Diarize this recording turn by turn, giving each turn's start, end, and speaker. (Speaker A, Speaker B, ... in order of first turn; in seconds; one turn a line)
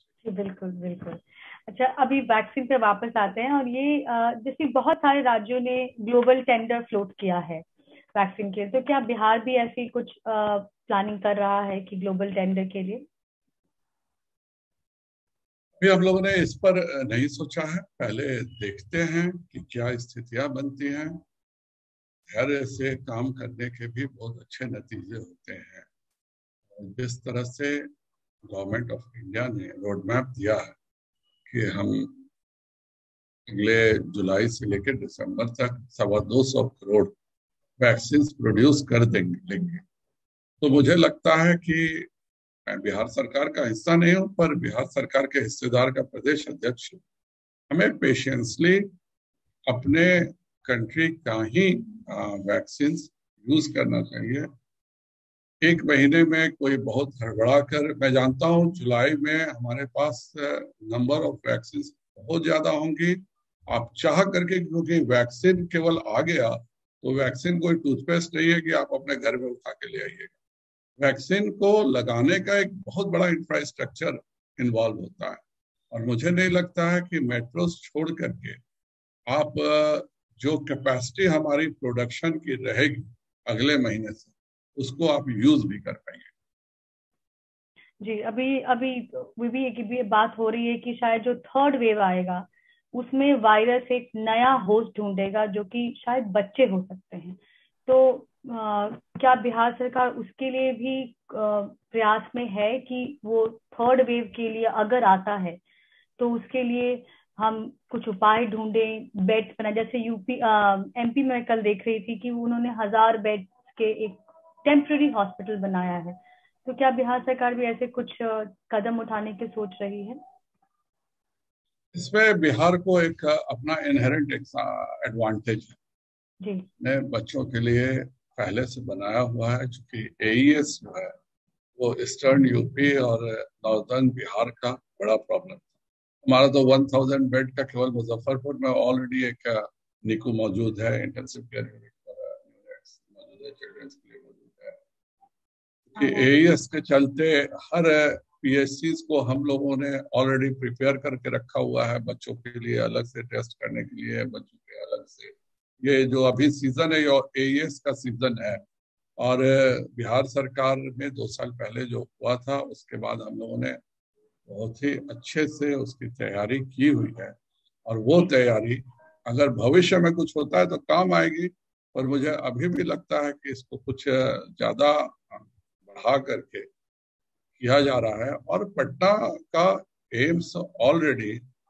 Speaker A: 0.2-13.1
Speaker B: 15.8-21.2
Speaker B: 22.3-25.9
Speaker B: 26.8-27.9
Speaker B: 28.4-30.8
Speaker B: 31.5-32.1
Speaker B: 33.5-37.1
Speaker B: 37.8-39.8
Speaker B: 40.6-42.1
Speaker B: 42.7-47.0
Speaker B: 47.7-48.9
Speaker B: 49.7-54.5
Speaker B: 55.6-70.3
Speaker B: 71.0-78.6
Speaker B: 79.3-86.3
Speaker A: 88.0-105.6
Speaker A: 106.2-120.2
Speaker B: 121.9-125.8
Speaker A: 126.4-126.7
Speaker B: 126.8-131.1
Speaker B: 131.8-135.7
Speaker B: 136.2-144.8
Speaker A: 145.9-146.3
Speaker B: 145.9-158.6
Speaker B: 159.2-163.8
Speaker B: 164.5-176.7
Speaker B: 177.6-181.4